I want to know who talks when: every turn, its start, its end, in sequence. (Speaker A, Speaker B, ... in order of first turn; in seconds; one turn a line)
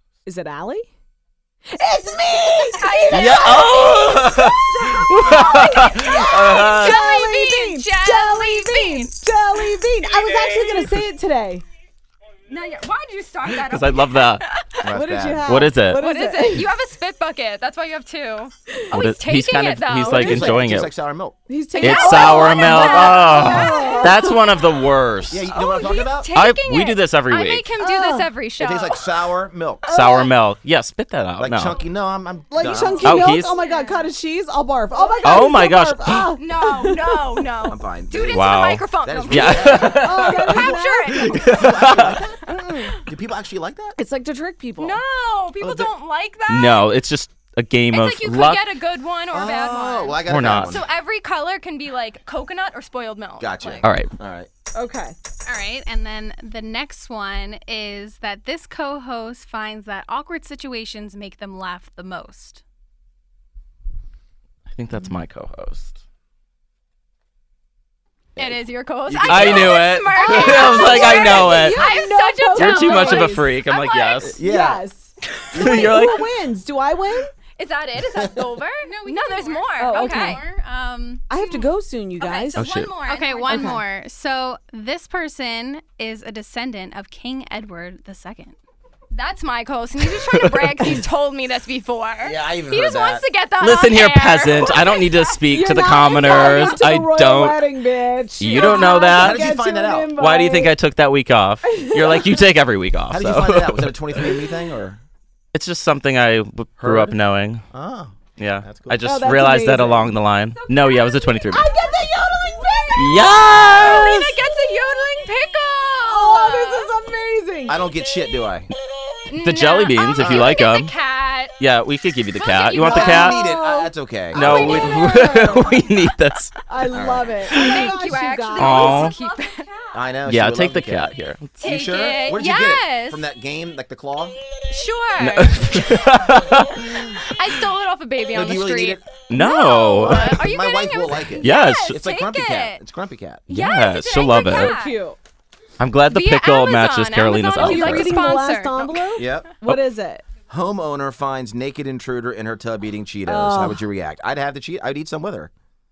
Speaker A: 0.3-0.9
Speaker A: 1.7-11.6
Speaker B: 2.7-4.4
Speaker C: 3.1-7.1
Speaker B: 4.9-9.2
Speaker B: 12.5-14.9
Speaker C: 13.5-14.4
Speaker D: 14.8-15.5
Speaker A: 14.9-16.7
Speaker C: 15.5-16.0
Speaker B: 16.0-20.5
Speaker C: 18.9-20.9
Speaker D: 20.1-21.4
Speaker A: 20.3-20.6
Speaker A: 21.5-24.6
Speaker B: 21.8-24.3
Speaker C: 21.8-25.5
Speaker D: 25.3-26.3
Speaker B: 25.5-29.1
Speaker C: 26.3-27.7
Speaker A: 27.8-28.3
Speaker D: 28.6-29.9
Speaker A: 29.9-30.3
Speaker C: 29.9-31.8
Speaker D: 31.4-33.2
Speaker A: 32.5-37.4
Speaker B: 32.7-34.1
Speaker C: 33.0-33.6
Speaker B: 35.1-35.4
Speaker C: 35.2-36.3
Speaker B: 36.4-41.6
Speaker D: 37.6-40.1
Speaker C: 38.3-42.2
Speaker A: 40.0-41.5
Speaker D: 41.4-44.0
Speaker A: 42.5-43.0
Speaker A: 44.0-45.0
Speaker B: 44.8-46.9
Speaker D: 45.6-45.9
Speaker C: 46.5-48.7
Speaker B: 47.9-53.9
Speaker D: 49.3-50.9
Speaker C: 50.3-50.8
Speaker D: 53.4-54.5
Speaker C: 53.8-54.1
Speaker A: 54.7-55.2
Speaker E: 55.4-62.6
Speaker C: 64.7-66.0
Speaker D: 68.4-69.9
Speaker B: 68.4-74.4
Speaker C: 69.3-72.0
Speaker A: 70.2-73.4
Speaker C: 72.5-74.4
Speaker D: 74.4-74.8
Speaker A: 74.4-77.3
Speaker D: 75.5-76.0
Speaker C: 75.5-76.2
Speaker B: 77.6-83.8
Speaker D: 78.1-78.4
Speaker E: 78.8-81.2
Speaker A: 79.8-80.5
Speaker A: 81.3-82.6
Speaker C: 82.6-82.9
Speaker E: 83.0-88.5
Speaker A: 83.5-83.8
Speaker B: 89.1-95.4
Speaker C: 90.3-91.0
Speaker D: 92.2-93.2
Speaker C: 93.6-97.6
Speaker A: 95.5-100.8
Speaker B: 96.0-96.8
Speaker C: 98.4-99.5
Speaker D: 99.1-100.2
Speaker C: 100.2-104.3
Speaker A: 101.7-102.3
Speaker D: 103.1-105.0
Speaker C: 105.5-107.6
Speaker D: 106.8-107.2
Speaker D: 107.7-109.0
Speaker C: 108.4-111.7
Speaker A: 109.0-110.2
Speaker A: 110.8-114.2
Speaker C: 113.0-114.3
Speaker B: 113.5-116.9
Speaker A: 116.0-117.9
Speaker D: 117.7-118.7
Speaker B: 119.3-121.5
Speaker C: 119.4-120.9
Speaker D: 120.2-120.6
Speaker C: 121.6-123.4
Speaker B: 122.3-123.2
Speaker D: 122.8-124.9
Speaker A: 122.8-125.9
Speaker C: 124.3-126.6
Speaker B: 124.3-125.4
Speaker A: 126.7-129.2
Speaker D: 126.9-127.3
Speaker B: 127.5-129.7
Speaker C: 127.5-127.9
Speaker C: 128.6-129.2
Speaker E: 129.2-129.9
Speaker D: 129.9-134.4
Speaker C: 130.3-131.5
Speaker B: 131.6-133.2
Speaker B: 134.7-136.2
Speaker C: 135.2-137.0
Speaker D: 136.8-137.2
Speaker B: 137.2-142.8
Speaker D: 138.3-139.1
Speaker C: 139.3-140.4
Speaker D: 140.0-143.5
Speaker C: 141.4-142.0
Speaker C: 143.5-144.7
Speaker B: 143.5-145.0
Speaker A: 144.4-145.2
Speaker C: 145.8-148.3
Speaker B: 146.1-149.2
Speaker A: 147.6-150.2
Speaker D: 149.2-149.5
Speaker D: 150.5-155.5
Speaker A: 153.3-153.8